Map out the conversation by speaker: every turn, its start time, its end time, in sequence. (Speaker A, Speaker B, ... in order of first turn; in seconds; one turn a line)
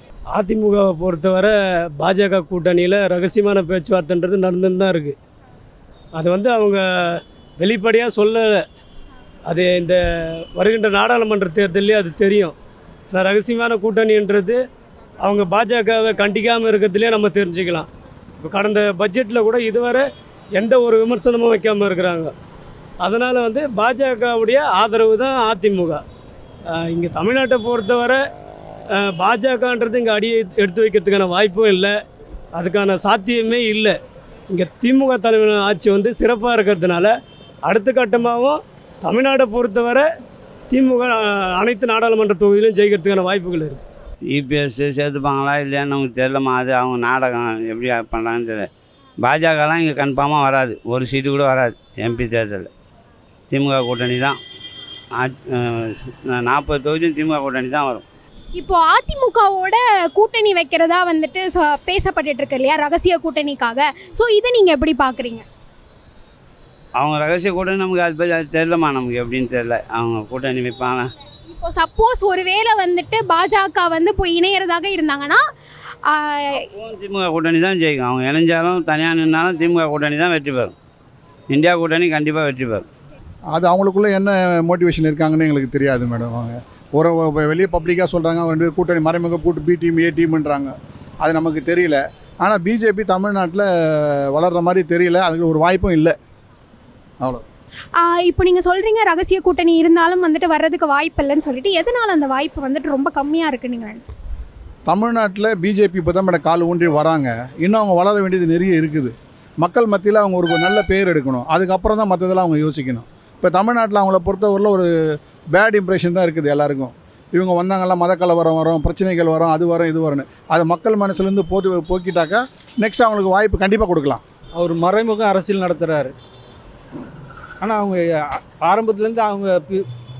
Speaker A: 0.3-5.2
Speaker A: 6.2-8.6
Speaker A: 9.5-10.0
Speaker A: 10.6-12.5
Speaker A: 13.1-14.6
Speaker A: 15.2-17.9
Speaker A: 18.4-20.0
Speaker A: 20.6-22.3
Speaker A: 23.0-26.0
Speaker A: 26.8-28.2
Speaker A: 29.0-31.9
Speaker A: 32.6-34.0
Speaker A: 34.5-37.1
Speaker A: 37.6-40.0
Speaker A: 40.7-43.8
Speaker B: 44.3-48.7
Speaker B: 49.2-52.7
Speaker B: 53.5-54.4
Speaker B: 55.1-58.0
Speaker C: 58.6-65.4
Speaker B: 67.0-71.1
Speaker C: 71.5-75.4
Speaker C: 76.1-76.7
Speaker B: 76.7-80.7
Speaker B: 81.5-82.8
Speaker D: 83.5-96.1
Speaker C: 98.0-104.0
Speaker D: 104.9-114.9
Speaker D: 115.5-124.2
Speaker E: 124.6-126.1
Speaker E: 127.6-129.8